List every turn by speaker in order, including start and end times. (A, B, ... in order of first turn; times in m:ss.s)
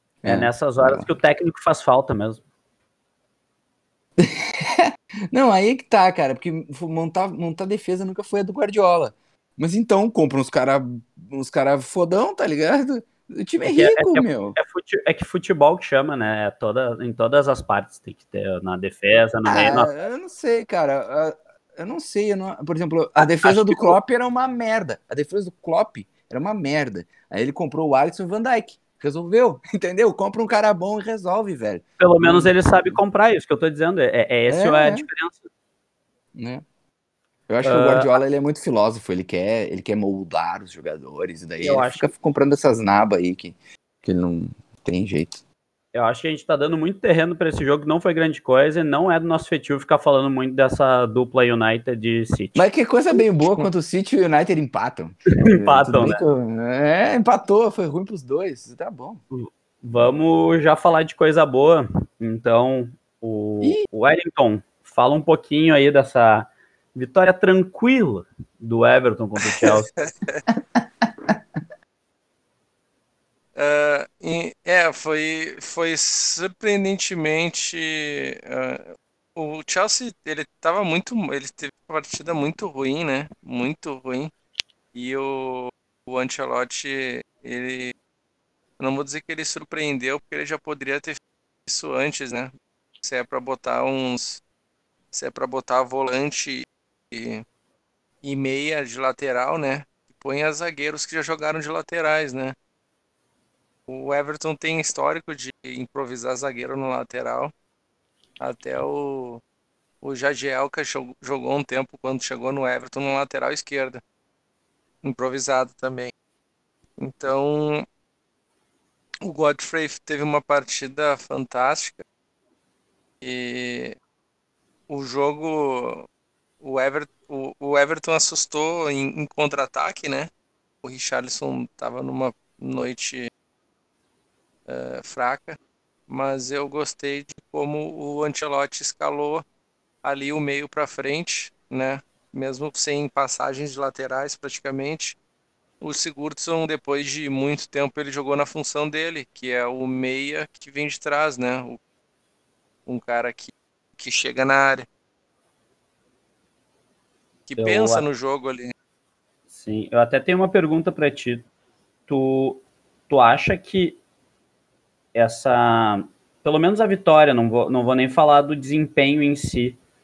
0:00.2-0:01.1 A
0:00.3-0:02.4 B
0:04.2-0:14.6 A
0:13.6-0:19.9 B
0:19.5-0:32.5 A
0:23.2-0:24.0 B
0:32.0-0:35.4 B
0:34.5-0:35.1 A
0:36.4-0:36.6 A
0:37.5-0:45.4 A
0:37.6-0:38.2 B
0:41.6-0:42.1 B
0:45.9-0:52.6 B
0:52.6-0:59.2 A
0:55.5-0:56.2 B
0:59.3-1:09.9 B
1:09.6-1:10.4 C
1:13.6-1:24.3 C
1:24.9-1:27.9 C
1:28.8-1:32.5 C
1:33.0-1:34.4 C
1:35.1-1:37.4 C
1:38.2-1:42.6 C
1:43.9-1:47.5 C
1:48.4-1:49.4 C
1:50.0-1:54.0 C
1:55.0-1:56.1 C
1:57.0-1:57.9 C
1:59.2-2:02.0 C
2:03.2-2:04.0 C
2:04.9-2:06.1 C
2:06.6-2:10.3 C
2:10.8-2:13.3 C
2:14.7-2:15.6 C
2:16.1-2:19.4 C
2:20.0-2:25.2 C
2:25.8-2:31.8 C
2:32.9-2:34.9 C
2:37.5-2:38.7 C
2:37.6-2:38.0 B
2:39.6-2:41.4 B
2:42.1-2:44.0 B
2:45.1-2:49.8 B